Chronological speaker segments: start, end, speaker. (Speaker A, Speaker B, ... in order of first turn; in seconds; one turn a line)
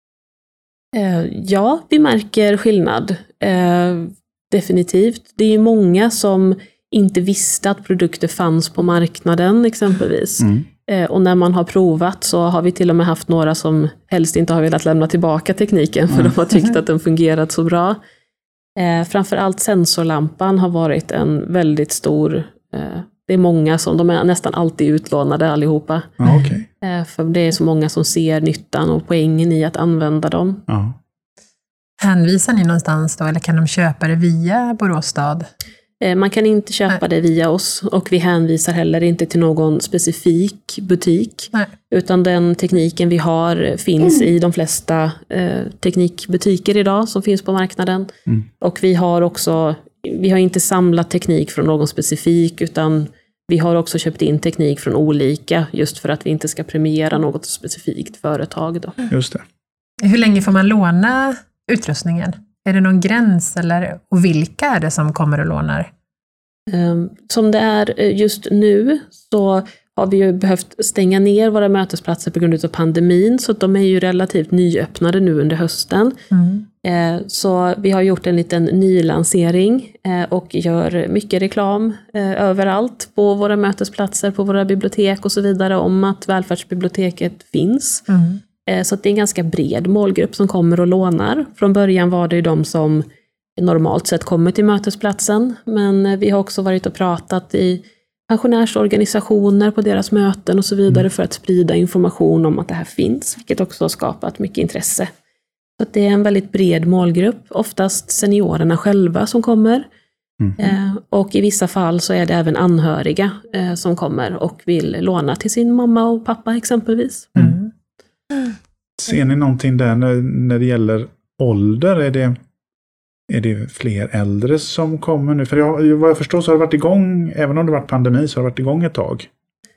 Speaker A: 0.9-18.0
Speaker B: 10.4-10.7
Speaker B: 16.1-16.3
Speaker A: 18.8-26.2
Speaker B: 26.2-26.6
Speaker C: 26.2-26.5
Speaker A: 26.8-30.6
Speaker B: 30.7-30.9
Speaker C: 32.0-35.4
Speaker A: 36.0-48.1
Speaker A: 48.6-59.0
Speaker B: 59.1-59.4
Speaker C: 60.0-65.9
Speaker A: 66.7-76.2
Speaker C: 76.3-76.6
Speaker A: 76.8-88.0
Speaker C: 88.1-88.4
Speaker A: 88.7-93.0
Speaker A: 93.5-105.1
Speaker A: 105.8-109.8
Speaker A: 110.6-117.3
Speaker B: 119.0-122.3
Speaker B: 123.3-129.3